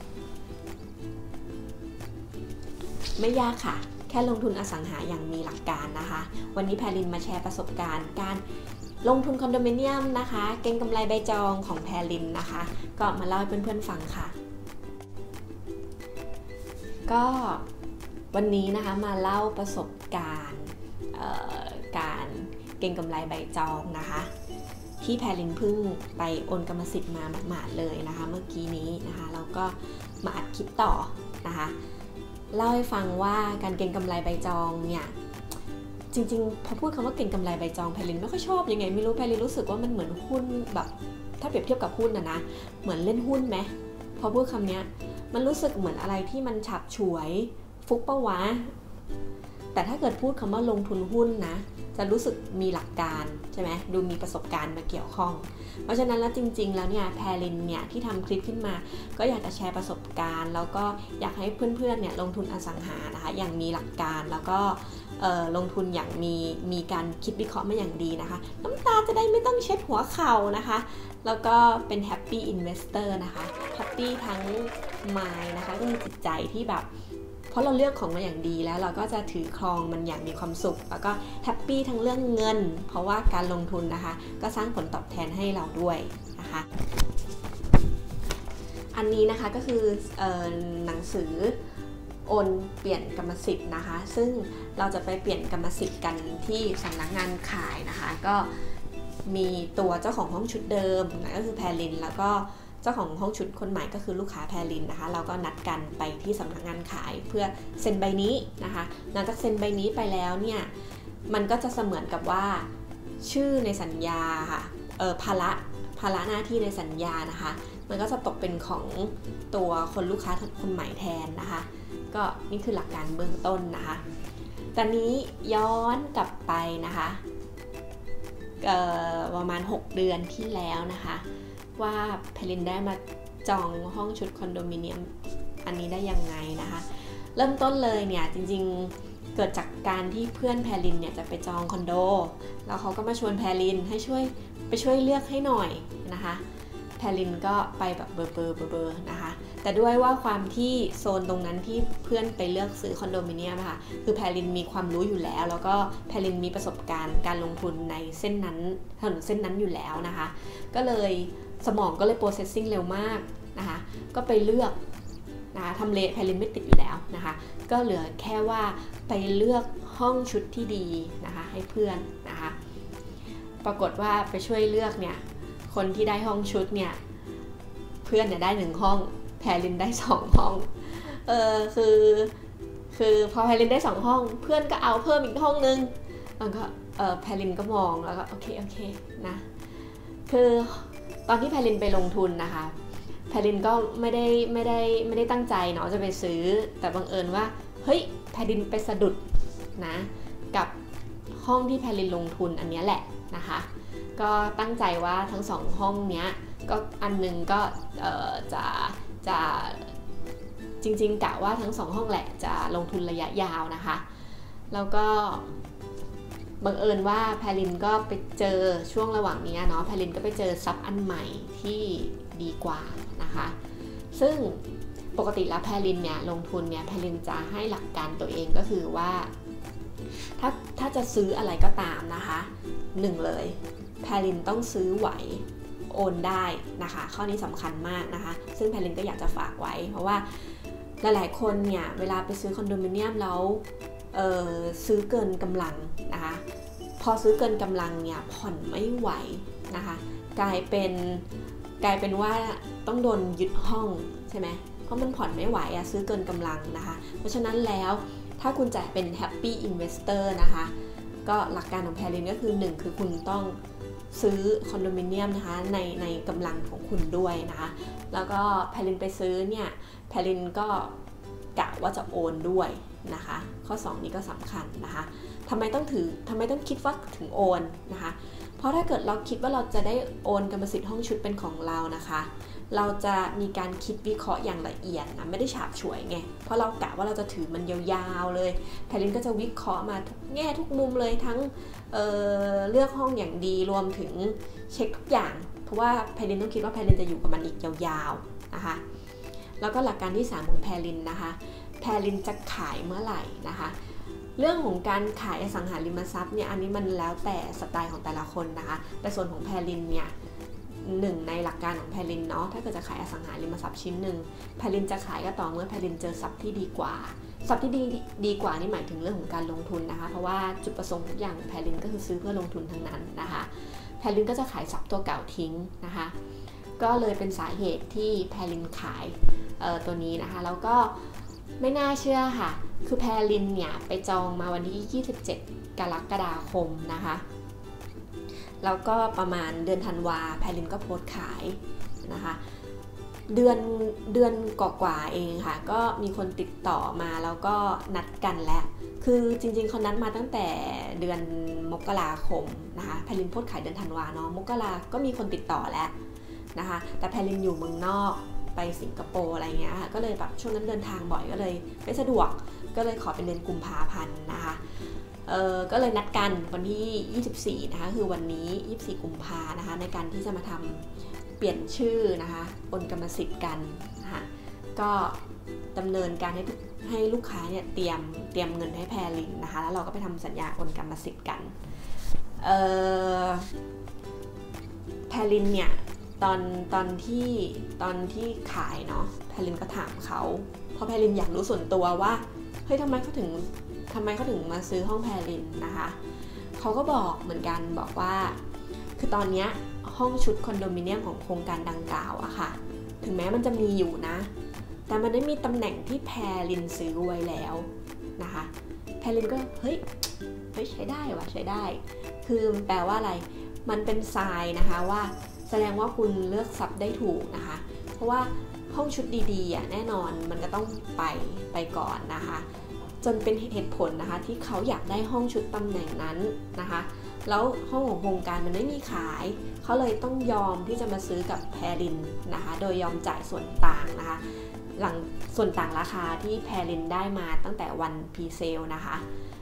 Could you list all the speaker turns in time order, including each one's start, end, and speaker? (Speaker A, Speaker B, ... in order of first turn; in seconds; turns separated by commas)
Speaker A: 3.2-8.4, Speaker A: 9.0-14.3, Speaker A: 17.1-17.6, Speaker A: 18.3-24.3, Speaker A: 25.0-31.8, Speaker A: 32.5-35.1, Speaker A: 36.1-48.7, Speaker A: 49.7-76.9, Speaker A: 77.5-86.7, Speaker A: 88.9-91.6, Speaker A: 92.3-98.7, Speaker A: 99.3-110.7, Speaker A: 111.3-112.7, Speaker A: 113.2-124.0, Speaker A: 124.8-127.2, Speaker A: 128.6-131.2, Speaker A: 131.8-146.4, Speaker A: 147.0-164.8, Speaker A: 165.5-172.6, Speaker A: 173.6-177.0, Speaker A: 178.0-182.3, Speaker A: 182.9-189.5, Speaker A: 190.3-192.8, Speaker A: 193.3-199.2, Speaker A: 199.8-200.7, Speaker A: 201.3-209.9, Speaker A: 210.8-214.1, Speaker A: 214.7-215.5, Speaker A: 216.6-223.6, Speaker A: 224.1-229.3, Speaker A: 230.4-246.4, Speaker A: 247.0-251.3, Speaker A: 251.8-260.7, Speaker A: 261.2-263.6, Speaker A: 264.1-270.9, Speaker A: 271.6-298.8, Speaker A: 299.6-303.8, Speaker A: 304.4-310.1, Speaker A: 310.8-326.1, Speaker A: 326.8-337.2, Speaker A: 338.6-342.4, Speaker A: 343.3-355.9, Speaker A: 356.6-364.6, Speaker A: 365.3-370.9, Speaker A: 371.4-375.2, Speaker A: 375.8-381.6, Speaker A: 382.4-383.5, Speaker A: 385.1-396.0, Speaker A: 396.6-398.4, Speaker A: 399.0-404.3, Speaker A: 404.9-409.9, Speaker A: 410.5-422.5, Speaker A: 423.0-439.0